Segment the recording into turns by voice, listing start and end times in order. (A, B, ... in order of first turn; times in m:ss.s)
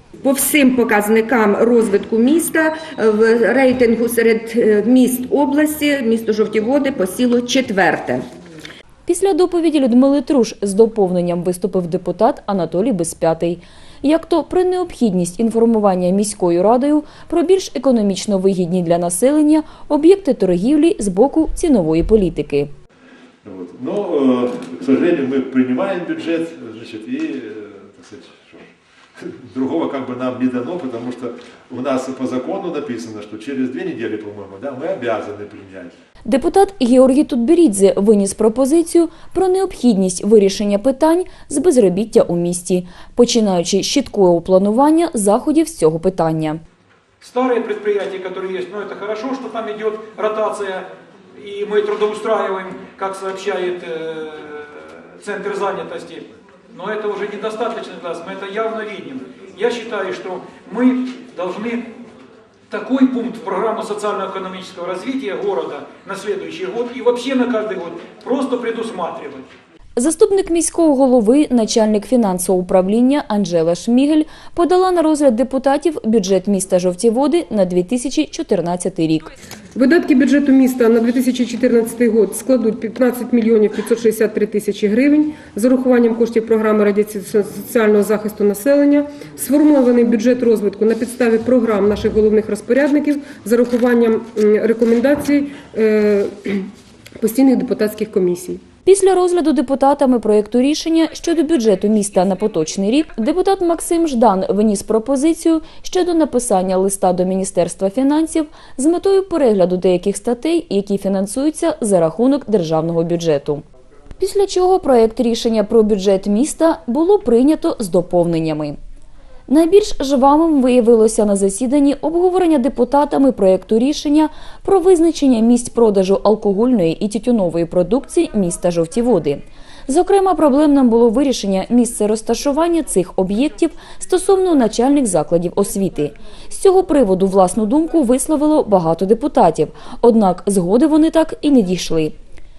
0:00.2-0:08.2 A
0:09.1-0:22.7 B
0:23.4-0:35.9 C
0:36.2-0:46.6 B
0:47.2-1:01.8 D
1:02.7-1:09.4 D
1:10.0-1:19.3 B
1:19.7-1:36.7 E
1:37.2-1:38.6 E
1:38.8-1:53.6 B
1:54.2-1:58.8 B
1:59.5-2:22.1 B